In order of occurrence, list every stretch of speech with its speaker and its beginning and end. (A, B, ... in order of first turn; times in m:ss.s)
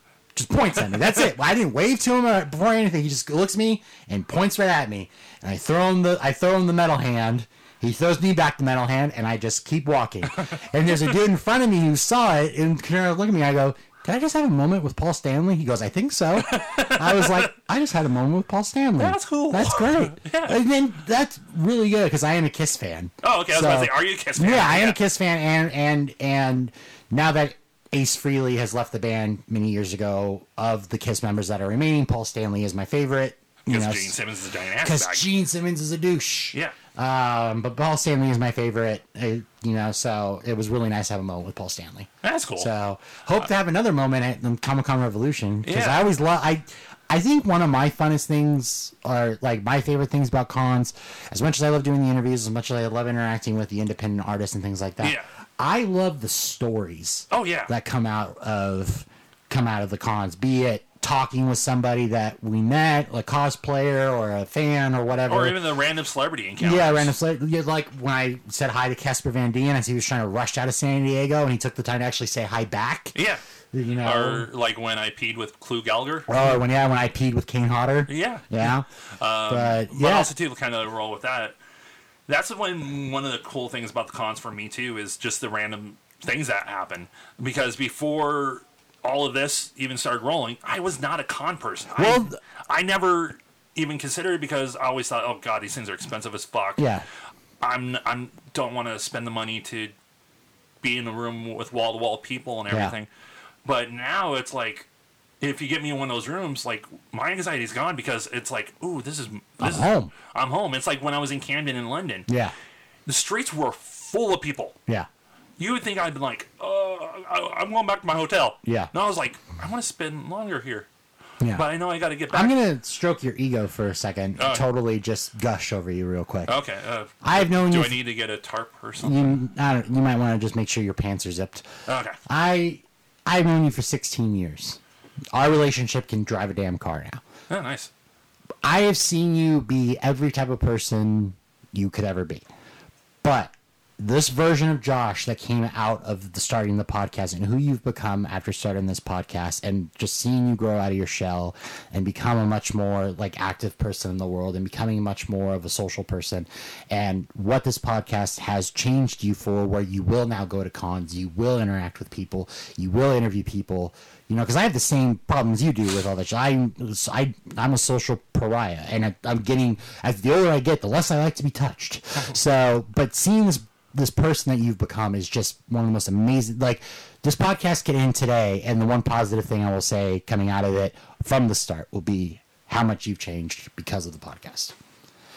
0:00.3-0:34.2 A
0:16.4-0:17.5 B
0:19.0-0:20.6 B
0:23.2-0:25.0 B
0:33.7-0:35.3 B
0:34.8-1:05.6 A
0:42.2-0:42.7 B
0:45.6-0:46.1 B
0:55.0-0:55.3 B
0:57.3-0:57.7 B
1:05.3-1:07.1 B
1:06.6-1:13.1 A
1:13.1-1:13.4 B
1:13.7-1:14.5 A
1:14.0-1:16.3 B
1:16.3-1:18.8 A
1:18.1-1:18.5 B
1:19.2-1:21.6 B
1:19.5-1:20.3 A
1:22.3-1:36.9 B
1:32.0-1:32.4 A
1:36.8-1:37.0 A
1:37.6-1:39.9 B
1:40.8-1:43.1 B
1:43.6-1:44.9 B
1:45.4-1:52.3 B
1:49.6-1:50.1 A
1:52.3-1:52.5 A
1:53.1-1:54.8 B
1:55.6-2:00.9 B
1:58.6-1:58.9 A
2:01.4-2:01.6 A
2:01.5-2:02.5 B
2:02.3-2:06.5 A
2:04.4-2:04.6 B
2:06.5-2:09.3 B
2:07.2-2:08.0 A
2:09.0-2:11.6 A
2:11.8-2:12.2 B
2:12.2-2:14.8 A
2:15.3-2:17.2 A
2:17.5-2:17.9 B
2:18.6-2:22.4 A
2:23.2-3:04.7 A